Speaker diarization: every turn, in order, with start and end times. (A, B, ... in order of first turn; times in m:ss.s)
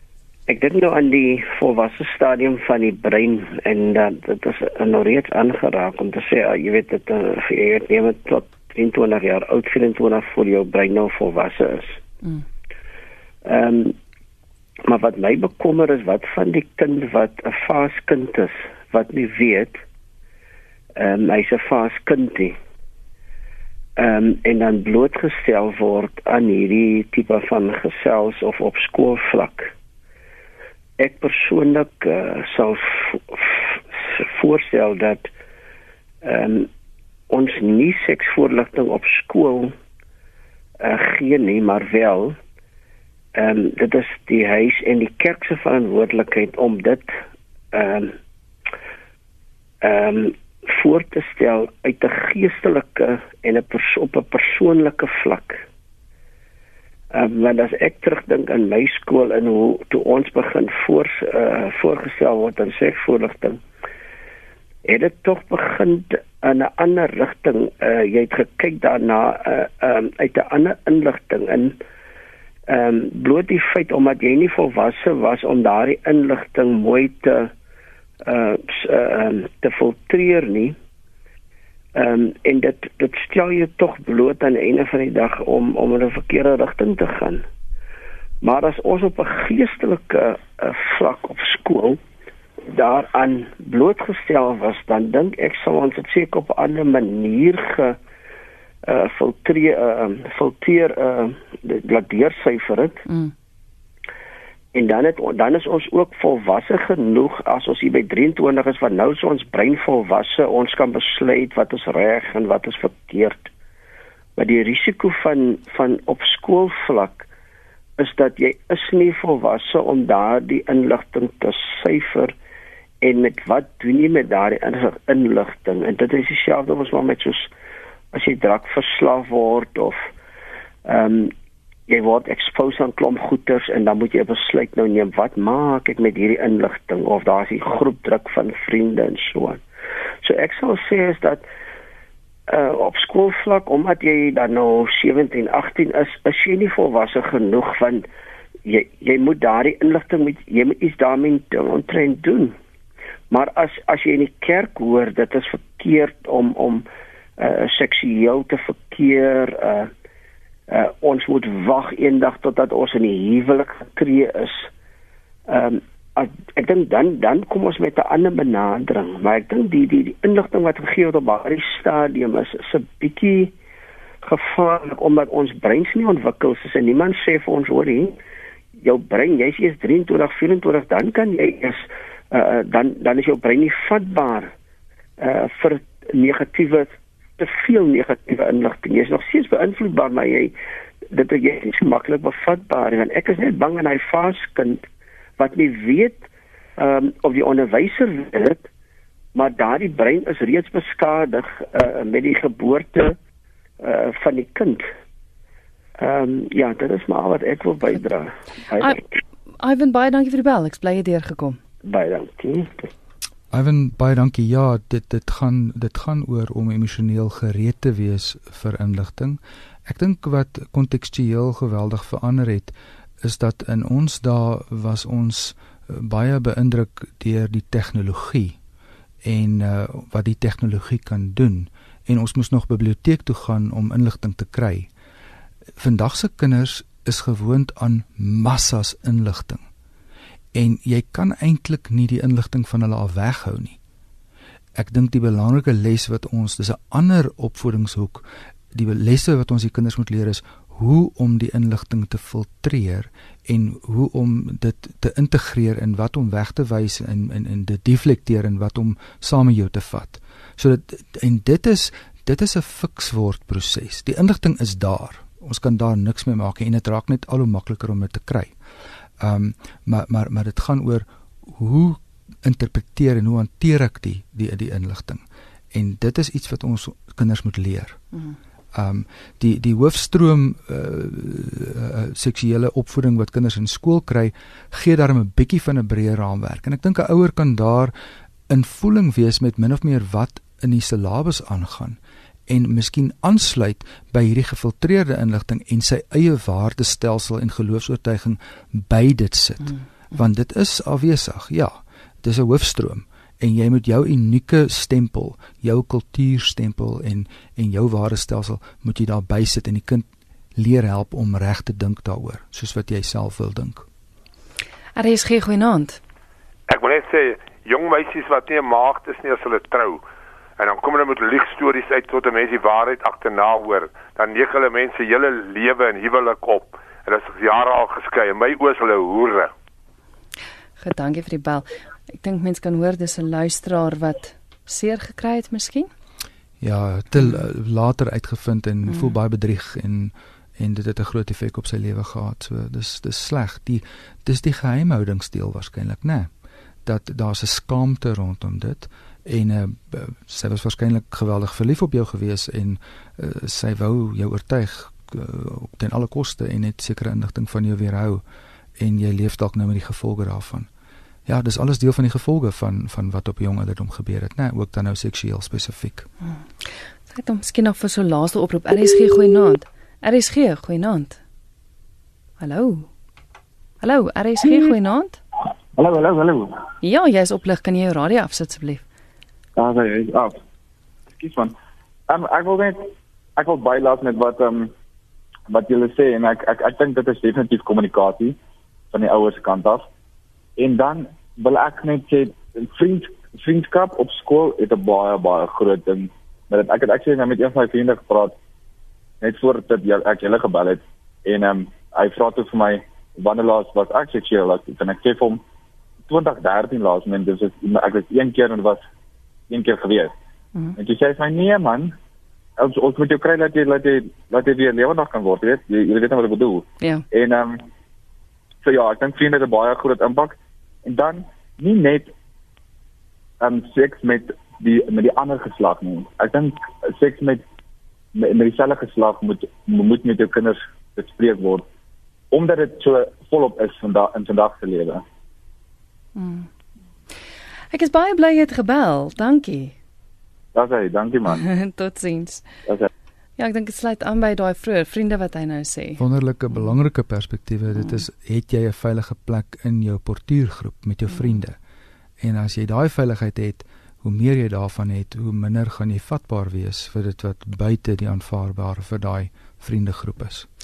0:00.5-0:12.0 A
0:13.4-0:14.0 A
0:14.8-0:19.8 A
0:21.0-0:22.6 A
0:24.0-0:29.7 A
0:31.0-0:35.3 A
0:36.2-0:36.7 A
0:37.3-0:39.7 A
0:40.8-0:42.4 A
0:43.3-0:47.1 A
0:47.7-0:48.2 A
0:49.8-0:55.6 A
0:57.1-1:03.6 A
1:04.8-1:11.8 A
1:12.7-1:17.5 A
1:18.2-1:20.8 A
1:21.9-1:27.4 A
1:28.4-1:32.0 A
1:32.7-1:38.0 A
1:38.8-1:43.0 A
1:43.1-1:43.3 B
1:44.7-1:53.5 A
1:54.4-1:57.3 A
1:58.0-2:02.3 A
2:03.0-2:07.5 A
2:08.1-2:10.1 A
2:10.8-2:11.3 A
2:11.9-2:19.6 A
2:20.2-2:21.4 A
2:22.5-2:28.1 A
2:28.6-2:32.6 A
2:33.3-2:36.8 A
2:37.4-2:39.9 A
2:40.7-2:44.7 A
2:45.5-2:53.5 A
2:54.2-2:58.2 A
2:58.8-3:04.5 A
3:05.2-3:10.5 A
3:11.1-3:14.8 A
3:15.4-3:18.7 A
3:19.3-3:23.2 A
3:23.8-3:24.9 A
3:26.0-3:29.2 A
3:29.6-3:31.6 B
3:31.8-3:32.9 A
3:33.5-3:48.6 C
3:49.2-3:54.9 C
3:55.8-3:59.6 C
4:00.5-4:03.8 C
4:04.8-4:28.5 C
4:29.2-4:38.0 C
4:38.7-4:47.9 C
4:48.5-5:13.8 C
5:15.0-5:16.0 B
5:16.7-5:20.0 D
5:20.6-5:29.5 D
5:30.8-5:35.9 B
5:36.6-5:46.3 C
5:46.8-5:58.2 C
5:58.8-6:00.7 C
6:01.2-6:06.1 C
6:06.2-6:11.2 B
6:12.4-6:12.9 B
6:13.8-6:15.2 B
6:15.7-6:16.6 E
6:16.8-6:18.8 B
6:19.6-6:20.4 E
6:21.2-6:21.5 E
6:22.1-6:24.7 E
6:25.5-6:28.4 E
6:28.9-6:29.9 E
6:30.6-6:38.4 E
6:39.2-6:45.4 E
6:46.1-6:48.8 E
6:49.5-6:50.1 E
6:50.8-6:51.9 E
6:52.6-6:57.6 E
6:58.6-7:02.1 E
7:03.4-7:07.4 E
7:08.1-7:11.7 E
7:12.3-7:15.0 E
7:16.2-7:16.5 B
7:17.7-7:19.7 B
7:20.5-7:21.4 E
7:21.3-7:22.4 B
7:23.4-7:26.0 B
7:26.0-7:31.6 C
7:32.2-7:40.5 C